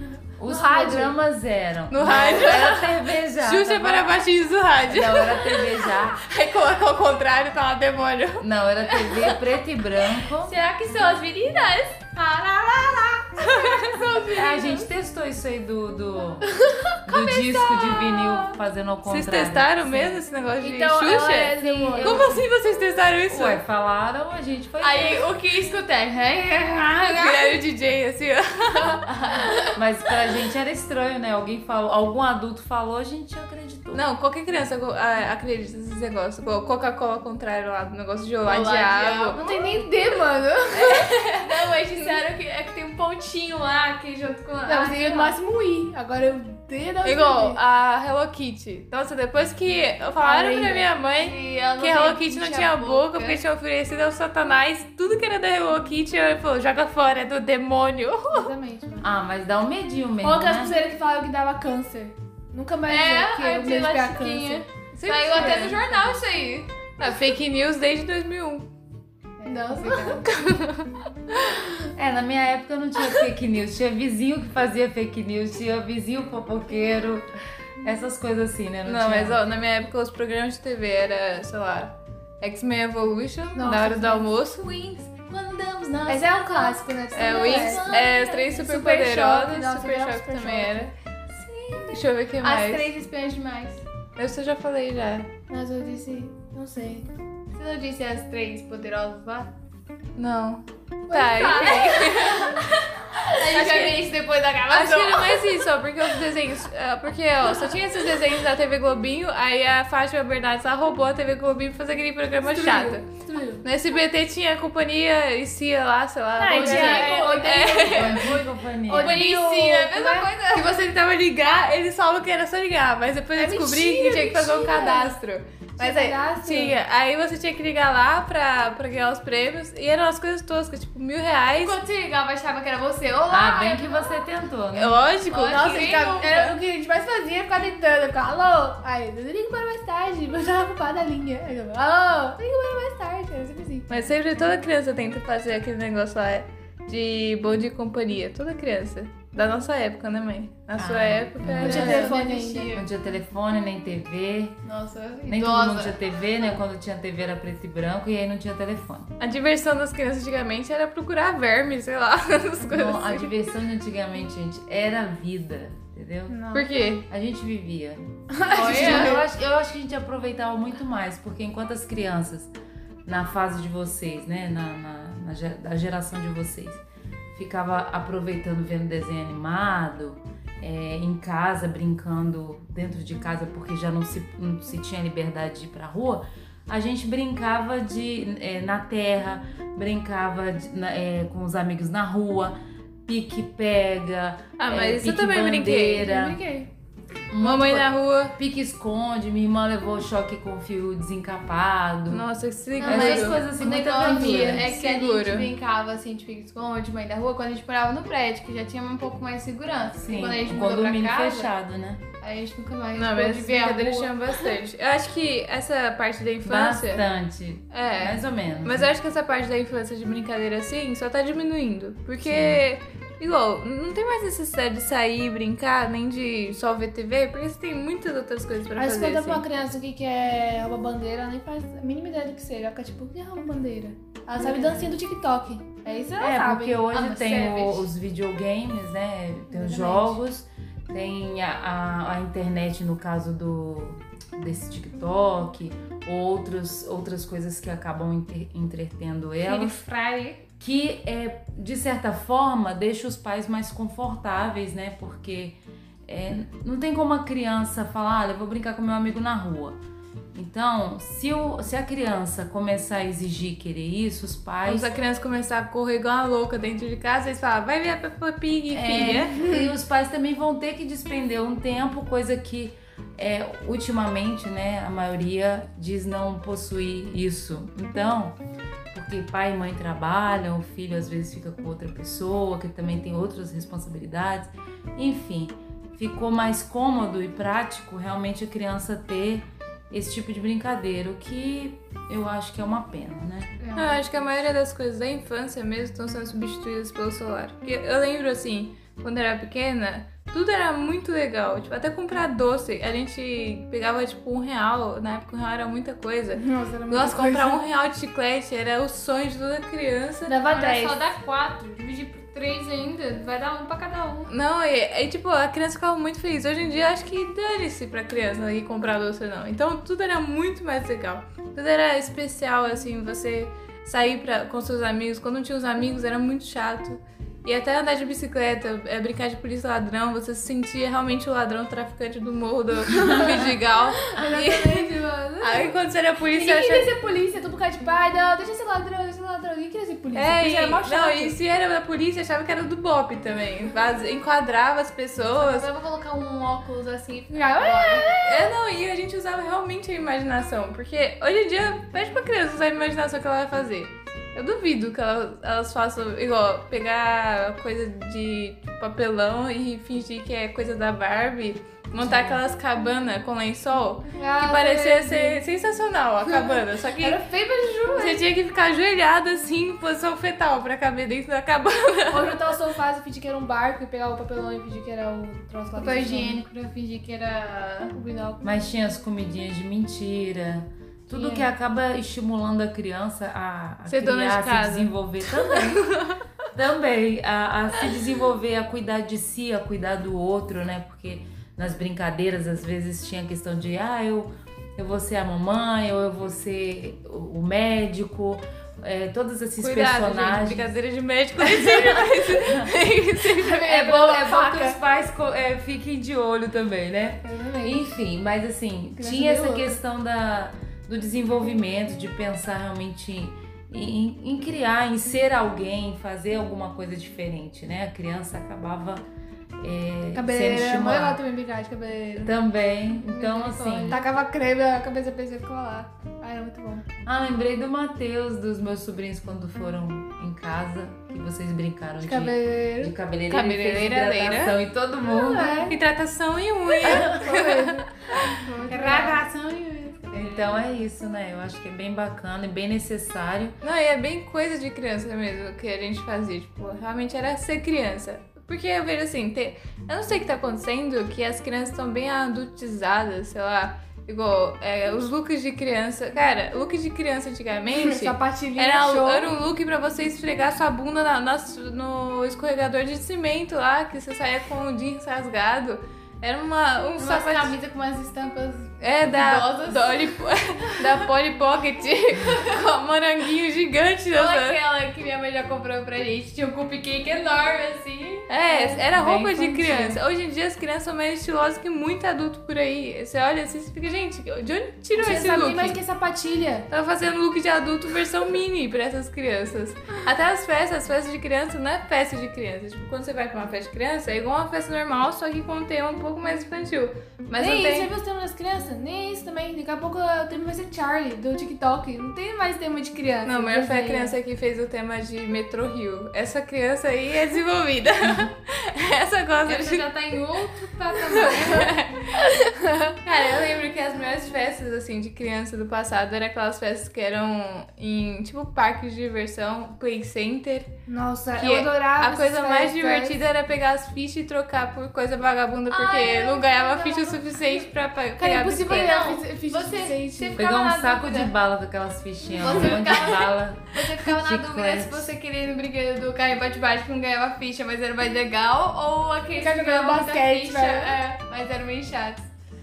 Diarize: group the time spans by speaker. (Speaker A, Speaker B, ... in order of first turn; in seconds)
Speaker A: 0.4-4.2, 4.9-6.2, 8.4-10.6, 14.3-20.2, 21.8-22.2, 23.3-25.3, 29.8-34.0, 59.0-60.8, 72.0-77.3, 77.8-79.4, 117.9-119.2, 133.3-135.1, 150.8-151.9, 152.7-154.6, 155.3-159.1, 162.6-166.4, 167.1-172.5, 173.1-176.8, 177.3-196.4, 197.3-202.3, 202.8-204.7, 210.0-212.0, 216.4-218.9, 222.2-222.6, 236.2-249.8, 250.6-259.8, 260.3-264.9, 268.7-278.4, 278.9-293.5, 362.0-362.4, 378.4-386.0, 386.5-400.7, 401.6-402.7, 403.6-419.0, 419.6-421.2, 422.2-424.0, 427.1-435.7, 436.8-437.4, 440.1-443.6, 530.4-535.1
Speaker B: 0.5-1.1, 20.6-22.5, 39.4-41.1, 44.7-47.6, 50.2-50.9, 58.3-59.1, 60.2-64.7, 65.3-65.8, 69.4-70.3, 83.5-84.3, 86.1-90.9, 95.5-97.1, 101.2-101.9, 112.5-113.7, 116.4-120.3, 123.4-125.2, 125.8-126.8, 135.5-144.1, 151.6-152.8, 166.3-166.7, 168.3-169.2, 196.0-196.7, 228.8-237.8, 239.5-240.2, 293.6-294.1, 306.4-307.6, 310.3-311.0, 333.0-333.4, 334.0-335.7, 336.3-341.4, 347.3-348.5, 364.1-365.4, 366.2-368.2, 372.1-376.4, 377.9-378.5, 381.1-381.4, 403.4-404.8, 407.2-407.9, 409.0-409.8, 420.1-422.3, 423.2-426.9, 432.0-432.9, 435.1-435.8, 437.0-439.2, 457.7-459.3, 478.5-480.0, 485.0-486.7, 497.4-504.1, 512.3-513.0, 520.9-523.2, 528.2-530.4, 539.4-541.0
Speaker C: 1.9-9.3, 13.4-14.7, 19.1-23.6, 27.1-29.1, 33.9-39.4, 40.7-41.7, 47.0-58.5, 64.9-66.2, 66.8-68.7, 69.7-71.0, 78.8-85.1, 87.1-90.9, 91.9-92.9, 94.2-95.3, 100.2-102.6, 103.5-104.1, 104.7-113.1, 113.6-118.3, 119.1-131.8, 134.7-136.3, 143.9-152.2, 159.2-163.3, 166.5-167.1, 194.6-196.1, 197.4-198.3, 202.1-203.4, 204.0-205.5, 212.9-217.0, 217.7-229.4, 264.7-269.5, 293.8-310.4, 314.3-336.9, 340.1-345.7, 348.2-367.2, 367.9-372.5, 383.9-384.9, 385.5-386.2, 399.6-403.7, 433.3-434.6, 435.6-437.8, 443.6-467.5, 468.8-474.6, 478.3-485.8, 486.7-497.9, 503.2-509.9, 510.9-512.3, 513.0-520.7, 521.4-529.0
Speaker D: 10.5-14.8, 17.3-18.4, 24.8-27.6, 29.0-29.8, 38.4-40.2, 41.4-45.4, 51.1-53.4, 62.9-66.7, 69.5-69.7, 85.1-88.7, 91.3-93.8, 97.5-99.5, 101.1-102.6, 103.4-105.5, 116.5-117.9, 119.0-120.7, 131.6-134.2, 135.3-136.6, 151.5-152.9, 154.7-156.0, 168.6-169.2, 202.8-211.5, 212.2-214.5, 237.1-237.7, 249.4-250.4, 310.5-314.3, 345.3-348.1, 375.8-377.9, 438.6-440.6, 467.0-470.2, 474.1-478.3, 509.5-511.7, 525.7-527.7, 528.7-531.3, 532.4-542.3